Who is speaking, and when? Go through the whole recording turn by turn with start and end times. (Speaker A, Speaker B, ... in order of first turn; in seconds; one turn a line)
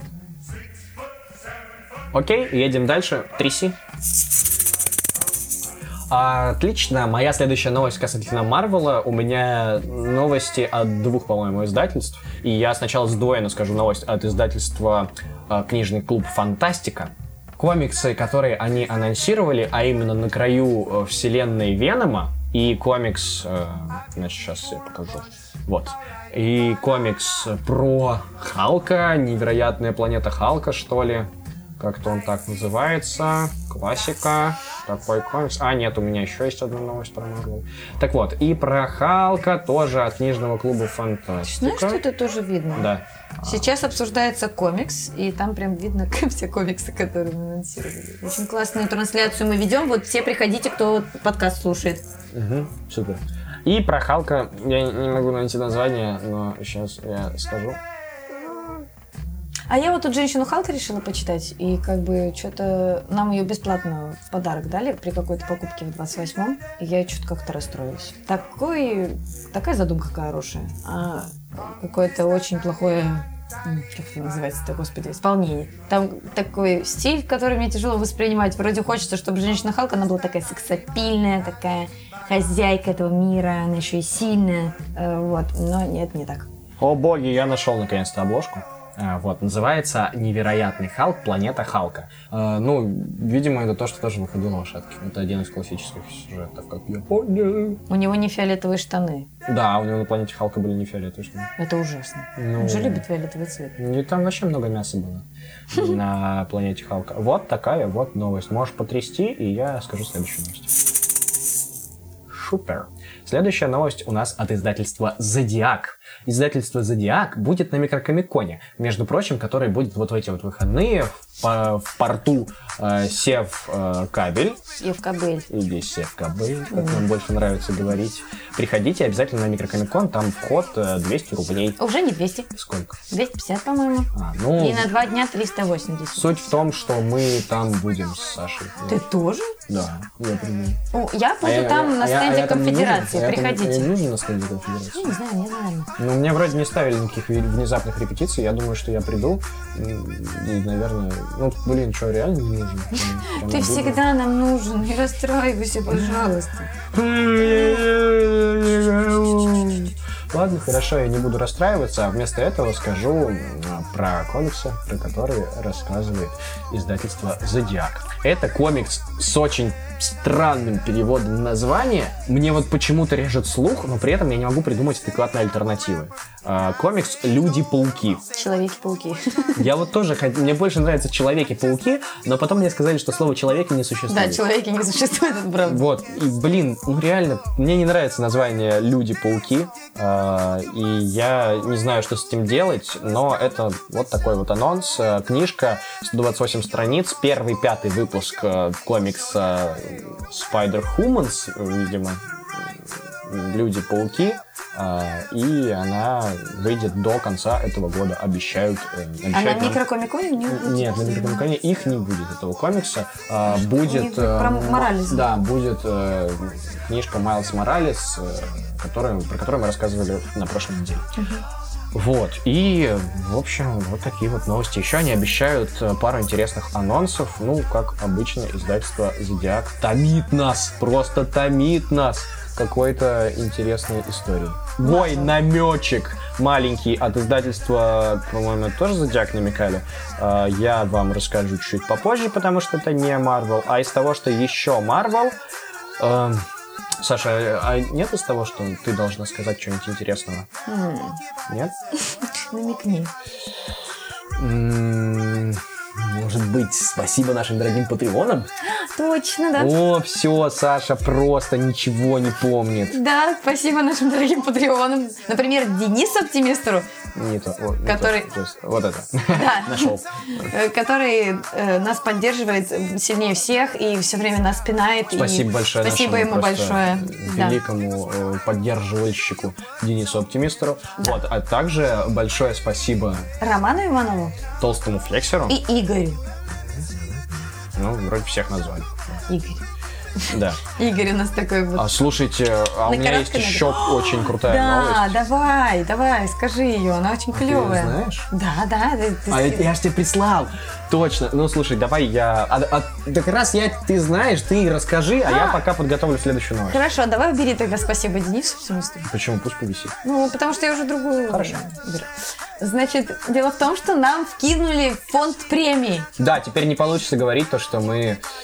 Speaker A: 2.1-3.8
Speaker A: 6.1-42.0
Speaker B: 41.4-42.9
Speaker A: 42.7-43.6
Speaker B: 43.4-52.0
Speaker A: 52.3-57.8
Speaker B: 59.7-86.5
Speaker A: 86.8-97.8
Speaker B: 97.9-99.3
Speaker A: 99.5-101.5
Speaker B: 101.6-103.8
Speaker A: 102.4-103.0
Speaker A: 103.8-110.7
Speaker A: 112.3-124.6
Speaker B: 124.8-125.5
Speaker A: 125.5-131.8
Speaker B: 126.7-127.0
Speaker B: 131.8-132.5
Speaker A: 132.5-132.9
Speaker B: 133.1-136.3
Speaker A: 134.1-134.9
Speaker A: 136.1-139.0
Speaker B: 138.9-139.5
Speaker A: 139.7-140.8
Speaker B: 140.9-143.9
Speaker A: 141.4-145.1
Speaker B: 144.9-145.9
Speaker A: 146.0-154.0
Speaker B: 153.3-156.7
Speaker A: 156.9-178.2
Speaker B: 178.3-179.6
Speaker A: 179.6-184.4
Speaker B: 184.1-185.8
Speaker A: 185.6-202.7
Speaker A: 203.2-209.8
Speaker B: 209.3-211.4
Speaker A: 210.5-221.1
Speaker B: 213.5-215.3
Speaker B: 221.2-221.4
Speaker A: 221.9-245.3
Speaker B: 234.8-235.3
Speaker A: 246.0-246.4
Speaker A: 247.0-250.5
Speaker B: 250.7-251.2
Speaker B: 252.1-253.1
Speaker A: 254.3-258.5
Speaker B: 258.6-259.7
Speaker A: 259.6-263.0
Speaker B: 262.9-266.9
Speaker A: 267.1-270.5
Speaker B: 267.8-268.3
Speaker B: 269.3-277.6
Speaker A: 275.1-283.3
Speaker B: 283.4-284.4
Speaker A: 284.6-285.6
Speaker B: 285.5-286.2
Speaker A: 286.7-287.2
Speaker A: 287.7-289.2
Speaker B: 289.3-289.6
Speaker B: 290.2-292.0
Speaker A: 290.3-290.6
Speaker A: 291.7-295.1
Speaker B: 292.8-299.7
Speaker A: 297.3-298.3
Speaker A: 299.3-306.8
Speaker B: 305.2-305.6
Speaker B: 306.7-309.1
Speaker A: 309.1-309.9
Speaker B: 310.0-316.1
Speaker A: 311.3-311.7
Speaker A: 316.2-318.2